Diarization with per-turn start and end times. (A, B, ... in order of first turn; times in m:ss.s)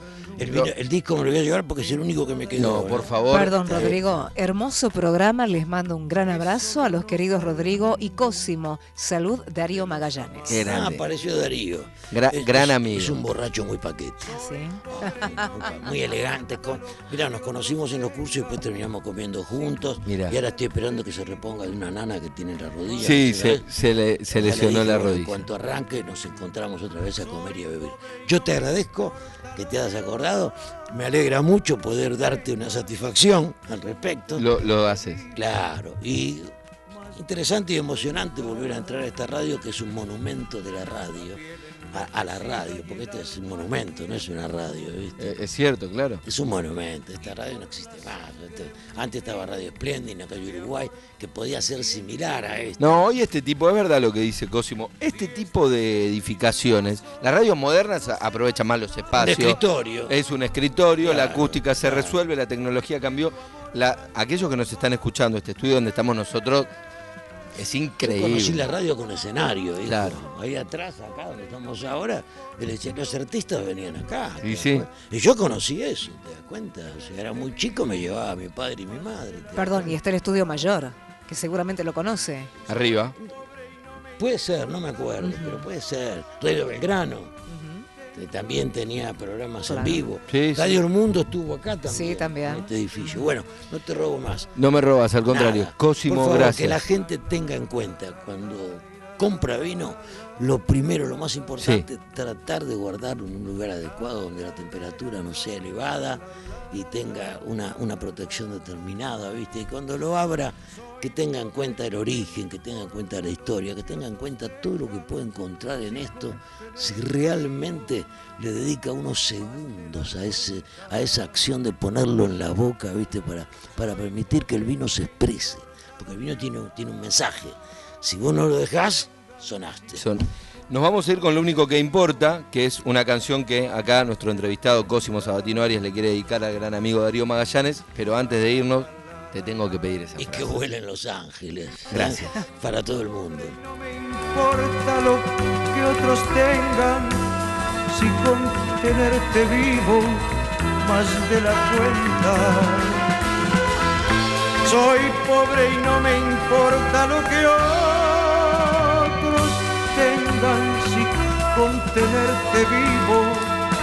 0:00.4-0:04.3 A
0:02.6-0:03.9 B
0:03.3-0:10.6 C
0:10.5-0:11.1 B
0:10.5-0:23.6 A
0:12.1-0:13.2 B
0:14.3-0:15.6 C
0:20.1-0:20.4 B
0:23.0-0:25.4 B
0:24.4-0:34.5 A
0:34.4-0:35.3 B
0:35.3-0:36.5 A
0:37.1-0:45.4 A
0:45.2-0:46.2 B
0:46.2-0:53.0 A
0:52.8-1:06.7 B
0:59.1-1:00.2 A
1:01.0-1:02.2 A
1:07.6-1:08.6 B
1:08.0-1:20.0 A
1:09.9-1:10.2 B
1:14.4-1:14.9 B
1:19.6-1:22.5 C
1:22.7-1:23.2 B
1:24.2-1:27.4 A
1:25.2-1:25.6 C
1:27.5-1:27.8 C
1:28.1-1:34.5 A
1:29.7-1:30.0 C
1:30.3-1:30.8 B
1:31.9-1:32.7 C
1:34.6-1:36.8 B
1:35.3-2:10.0 A
1:41.6-1:41.9 B
2:10.0-2:20.5 B
2:20.2-2:23.6 A
2:21.9-2:22.4 B
2:23.9-2:27.3 D
2:27.9-2:30.3 D
2:30.8-2:33.1 D
2:34.6-2:43.6 D